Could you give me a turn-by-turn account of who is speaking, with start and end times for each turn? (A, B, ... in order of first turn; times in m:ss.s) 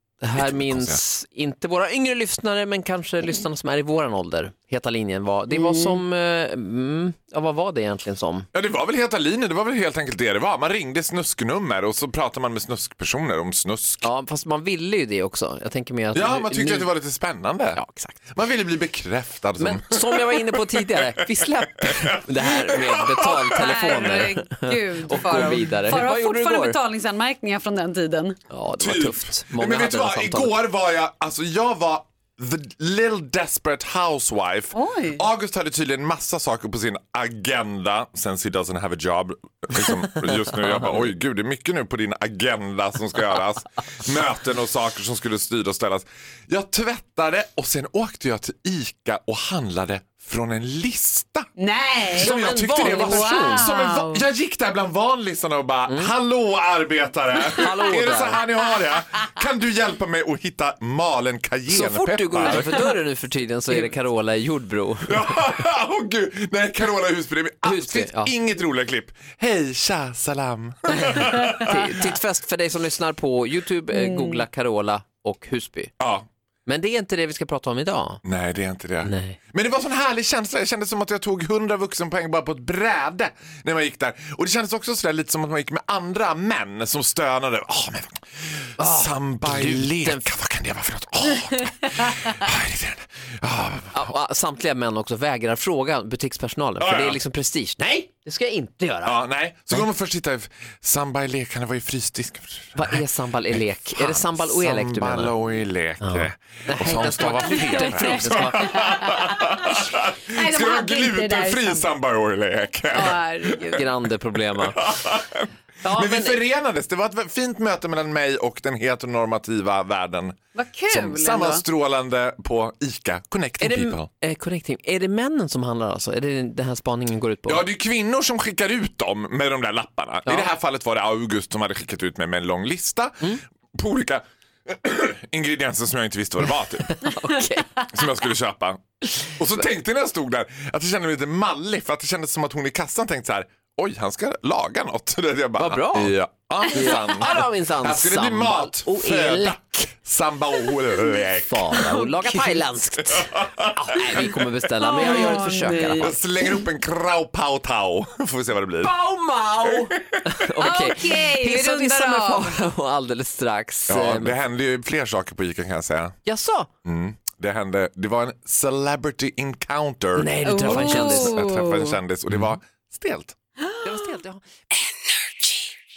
0:00.2-0:08.5 A
0:00.4-0:01.0 B
0:05.5-0:06.0 C
0:08.5-0:14.1 B
0:14.0-0:16.9 A
0:16.2-0:20.4 B
0:17.8-0:18.2 A
0:19.6-0:26.8 A
0:21.8-0:24.3 B
0:23.4-0:28.4 C
0:25.1-0:26.1 B
0:28.5-0:30.6 A
0:28.8-0:51.5 B
0:34.7-0:35.2 C
0:51.6-0:54.3 C
0:52.1-1:02.9 B
0:52.2-0:53.6 A
0:55.9-0:56.1 A
0:57.6-0:58.4 A
1:01.7-1:05.3 A
1:05.1-1:11.7 B
1:07.6-1:08.3 A
1:11.6-1:15.9 A
1:16.0-1:16.2 B
1:16.7-1:18.2 A
1:18.2-1:28.2 B
1:19.0-1:19.4 A
1:28.8-1:30.3 A
1:28.8-1:34.1 B
1:33.9-1:39.2 A
1:36.8-1:37.2 B
1:39.0-1:53.8 B
1:42.8-1:45.4 A
1:46.0-1:48.7 A
1:46.9-1:51.9 C
1:52.9-1:53.9 C
1:53.7-1:54.8 A
1:54.7-2:04.1 B
1:55.8-1:56.4 A
2:00.6-2:01.6 C
2:03.6-2:07.6 A
2:07.5-2:13.2 B
2:13.7-2:17.0 B
2:17.0-2:17.8 A
2:17.9-2:18.8 B
2:19.4-2:32.6 B
2:25.6-2:26.1 A
2:26.7-2:29.9 A
2:31.5-2:36.2 A
2:33.1-2:34.4 B
2:34.8-2:36.2 C
2:36.0-2:38.9 B
2:38.8-2:44.4 A
2:40.0-2:40.9 B
2:40.6-2:42.6 C
2:43.9-2:46.2 B
2:46.2-2:46.7 A
2:46.8-2:53.4 B
2:50.2-2:51.4 A
2:50.5-2:52.0 C
2:52.3-2:52.6 A
2:53.8-2:54.4 A
2:54.9-2:55.6 C